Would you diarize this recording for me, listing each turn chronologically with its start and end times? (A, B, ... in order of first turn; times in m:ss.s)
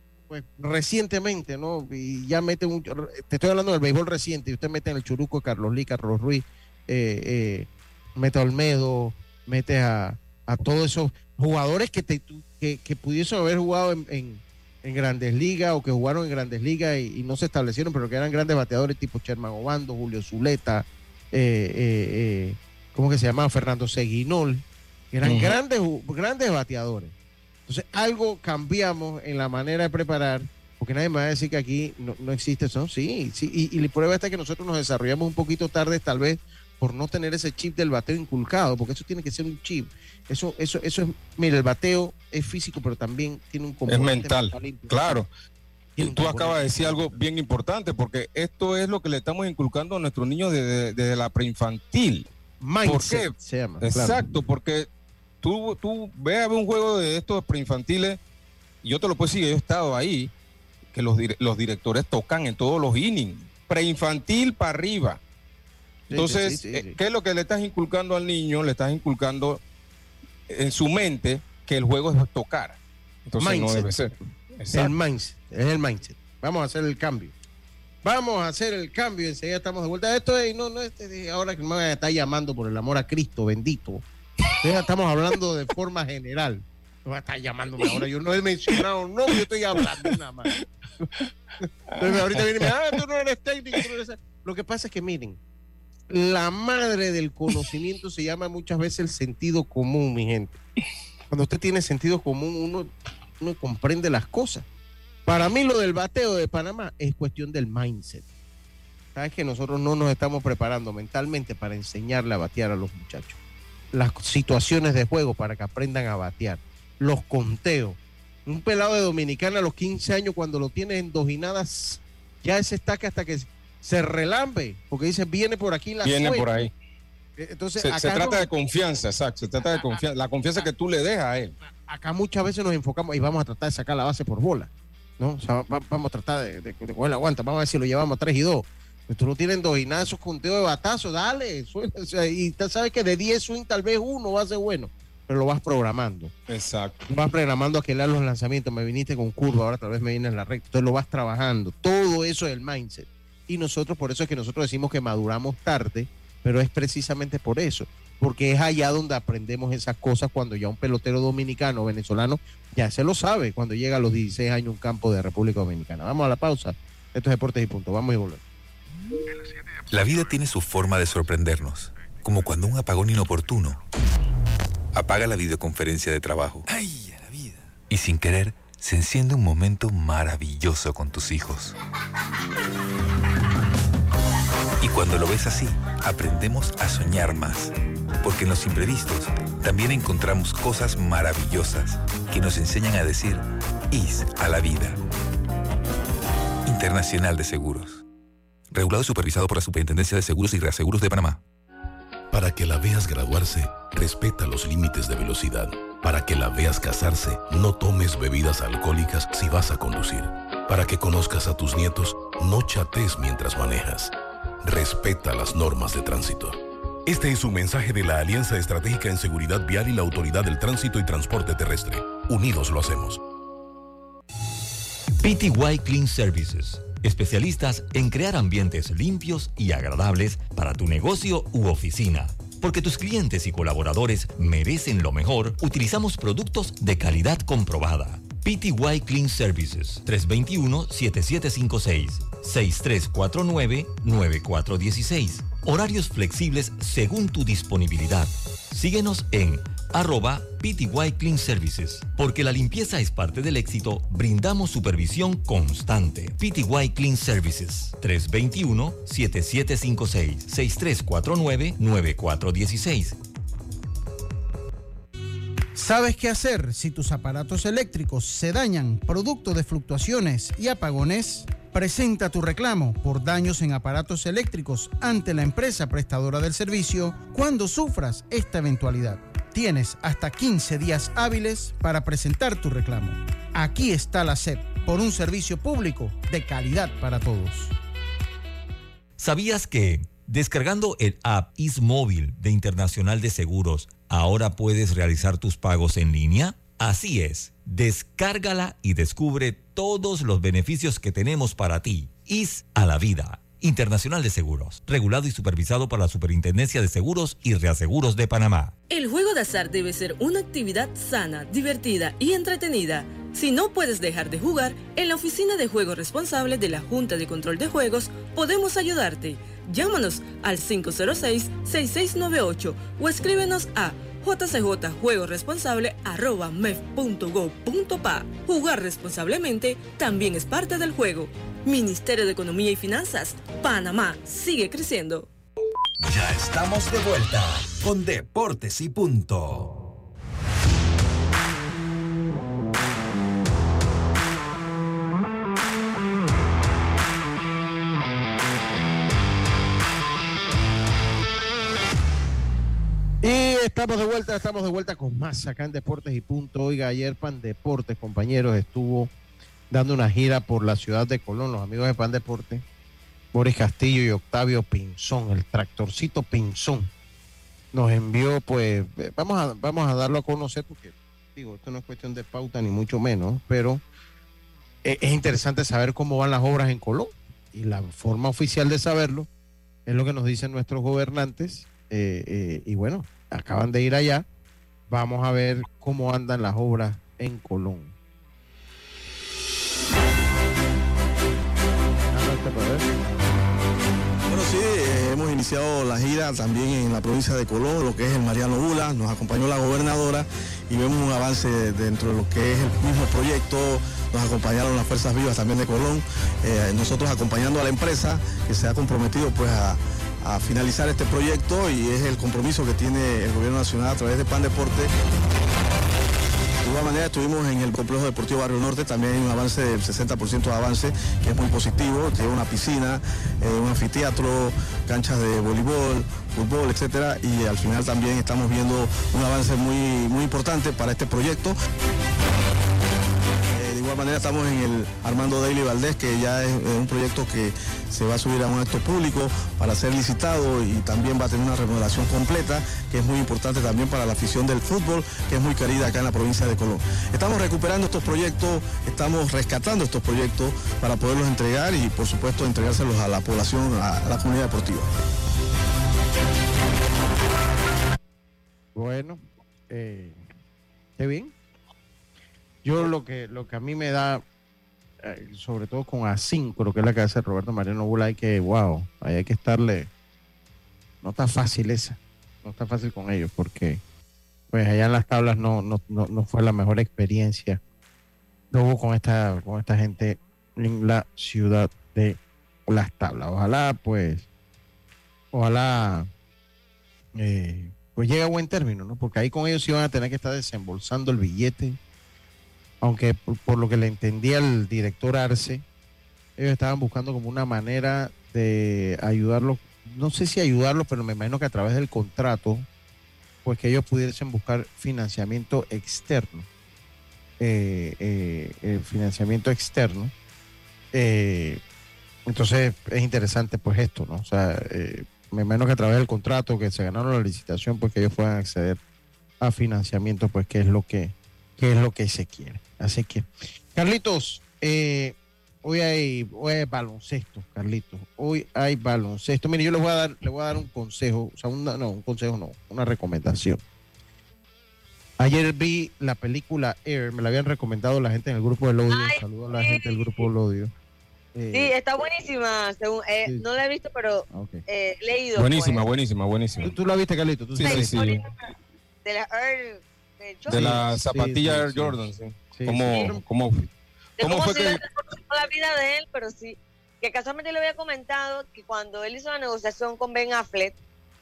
0:00.3-0:27.1 A
0:25.2-0:25.6 B
0:27.7-0:45.2 A
0:43.9-0:45.3 B
0:46.0-0:47.2 A
0:46.0-0:52.3 B
0:52.6-0:54.4 A
0:52.8-0:54.9 B
0:55.4-0:58.2 B
0:58.8-1:00.3 B
1:00.9-1:05.2 B
1:06.1-1:07.0 A
1:06.1-1:09.6 B
1:10.5-1:14.9 B
1:13.4-1:13.9 A
1:14.7-1:17.3 A
1:18.0-1:24.0 A
1:24.6-1:31.1 A
1:31.6-1:35.4 A
1:31.9-1:32.7 B
1:36.1-1:40.6 A
1:41.3-1:44.7 A
1:45.3-1:48.2 A
1:49.2-1:53.4 A
1:53.9-2:06.5 A
2:06.0-2:06.7 B
2:07.4-2:08.5 A
2:07.8-2:11.5 B
2:09.6-2:10.0 A
2:11.9-2:26.3 A
2:26.5-2:27.0 B
2:27.1-2:48.4 A
2:49.9-2:53.8 C
2:54.9-3:01.8 C
3:04.8-3:15.0 C
3:16.6-3:18.0 C
3:18.7-3:21.4 C
3:22.3-3:43.2 D
3:45.2-4:23.2 E
4:25.8-4:47.8 F
4:49.2-5:08.7 E
5:08.9-5:35.3 G
5:36.0-5:39.8 H
5:53.2-5:59.1 A
5:59.7-6:02.6 A
6:03.3-6:06.9 A
6:07.7-6:13.8 A
6:14.8-6:19.3 A
6:19.9-6:24.3 A
6:24.9-6:27.9 A
6:32.1-6:33.0 A
6:34.3-6:54.9 I
6:56.6-7:11.5 I
7:13.5-7:34.9 I
7:38.8-7:40.3 A
7:41.0-7:41.3 A
7:42.6-7:44.2 A
7:45.0-7:49.9 A
7:51.0-7:53.8 A
7:54.5-7:57.6 A
7:58.5-8:04.3 A
8:05.3-8:06.1 A
8:07.2-8:11.8 A
8:12.8-8:15.6 A
8:16.4-8:22.7 A
8:23.4-8:26.5 A
8:27.4-8:30.1 A
8:30.9-8:31.6 A
8:32.3-8:38.8 A
8:39.4-8:53.6 A
8:55.2-9:00.7 A
8:58.9-9:00.3 J
9:01.4-9:01.8 A
9:01.5-9:05.8 J
9:04.3-9:04.6 A
9:05.4-9:06.7 B
9:06.6-9:08.0 A
9:07.6-9:08.2 B
9:07.6-9:08.5 J
9:09.0-9:10.8 J
9:10.5-9:14.8 B
9:10.5-9:13.2 A
9:14.2-9:20.8 J